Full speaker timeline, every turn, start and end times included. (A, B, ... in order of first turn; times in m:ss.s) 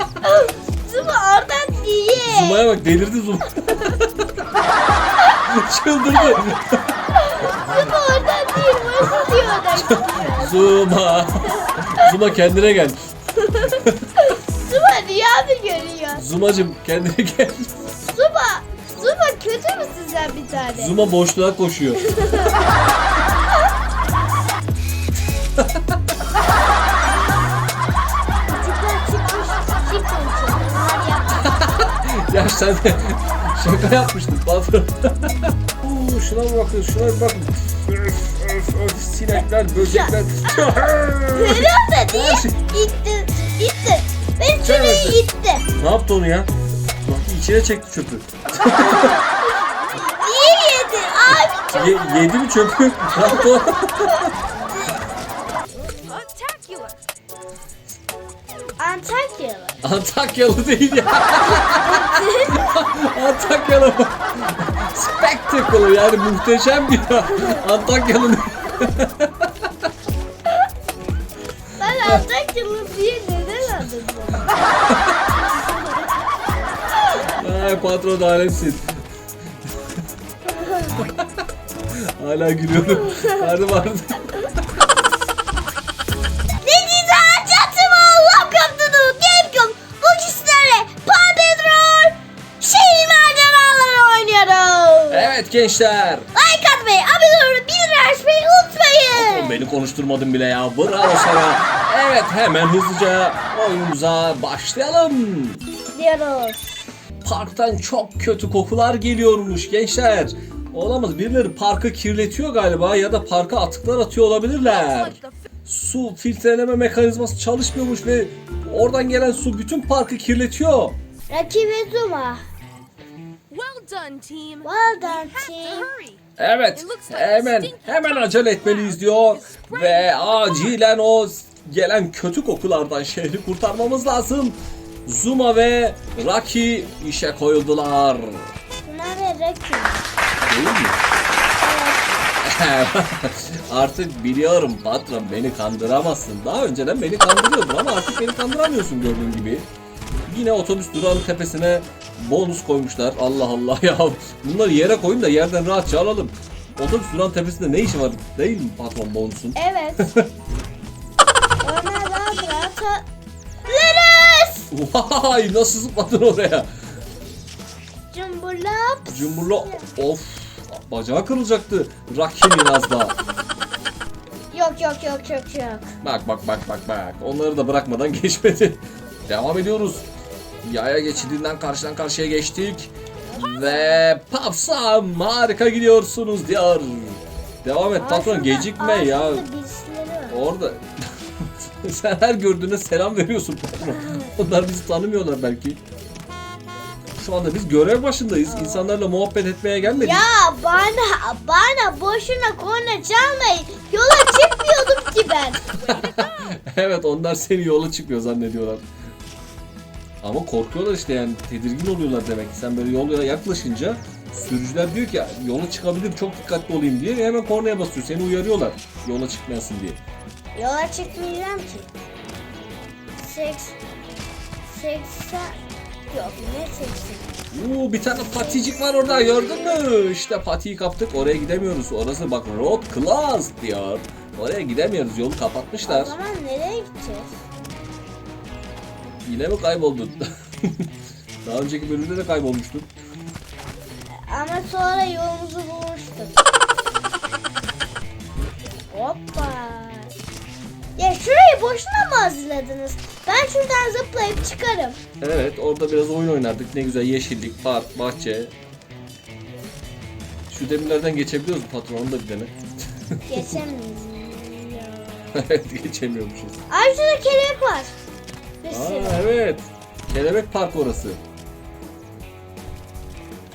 0:00.2-0:02.6 A
0:02.1-0:04.3 B
0:05.5-0:06.8 B
0:07.2-0:10.7 A
0:09.8-0:13.0 B
0:13.4-0:16.2 A
0:13.6-0:14.1 B
0:16.1-0:17.7 B
0:18.0-0:21.0 A
0:20.7-0:22.0 B
0:22.0-0:22.6 A
0:25.6-0:25.8 B
0:28.5-0:31.5 A
0:31.4-0:42.6 B
0:39.8-0:40.1 A
0:41.3-0:45.7 A
0:44.6-0:45.2 B
0:45.8-0:46.5 B
0:47.0-0:49.2 B
0:48.6-0:52.3 A
0:51.7-0:54.3 B
0:53.1-0:53.5 A
0:56.1-0:57.0 C
0:58.8-0:59.8 A
0:59.8-1:09.5 B
1:01.4-1:02.7 A
1:11.8-1:14.6 A
1:14.9-1:15.2 B
1:17.4-1:19.0 B
1:20.5-1:20.9 A
1:21.0-1:21.3 B
1:21.9-1:24.6 B
1:26.6-1:35.3 A
1:35.1-1:36.3 B
1:36.3-1:39.6 A
1:39.1-1:45.6 B
1:45.9-1:46.9 A
1:47.2-2:01.0 B
1:54.6-1:55.5 C
2:01.3-2:02.4 A
2:03.5-2:06.2 C
2:04.6-2:05.9 A
2:06.4-2:18.5 B
2:06.7-2:10.8 C
2:18.8-2:20.1 A
2:20.4-2:21.0 B
2:21.6-2:22.1 A
2:22.4-2:29.7 B
2:30.3-2:40.3 B
2:39.6-2:40.1 A
2:41.6-2:43.1 A
2:43.6-2:44.7 A
2:44.7-2:46.7 B
2:48.1-2:49.9 A
2:49.1-2:53.2 B
2:54.5-2:56.0 A
2:56.0-3:00.0 B
3:00.6-3:09.5 B
3:01.2-3:01.4 A
3:03.3-3:03.6 A
3:08.0-3:10.4 A
3:10.3-3:15.8 B
3:14.0-3:14.3 A
3:17.2-3:20.3 B
3:18.5-3:18.9 A
3:20.0-3:25.6 A
3:25.7-3:26.6 C
3:25.9-3:28.8 B
3:30.2-3:40.0 B
3:40.6-3:41.9 A
3:43.2-3:43.8 A
3:44.7-3:45.6 A
3:46.1-3:47.3 A
3:47.5-3:56.2 B
3:48.3-3:48.6 A
3:55.9-3:57.3 A
3:59.2-4:00.9 B
4:01.4-4:02.9 B
4:04.3-4:06.4 A
4:08.9-4:10.1 A
4:11.0-4:15.0 A
4:15.2-4:18.5 B
4:20.5-4:23.6 B
4:23.3-4:25.4 A
4:25.3-4:26.6 B
4:26.7-4:28.0 A
4:28.6-4:29.2 A
4:28.7-4:31.2 B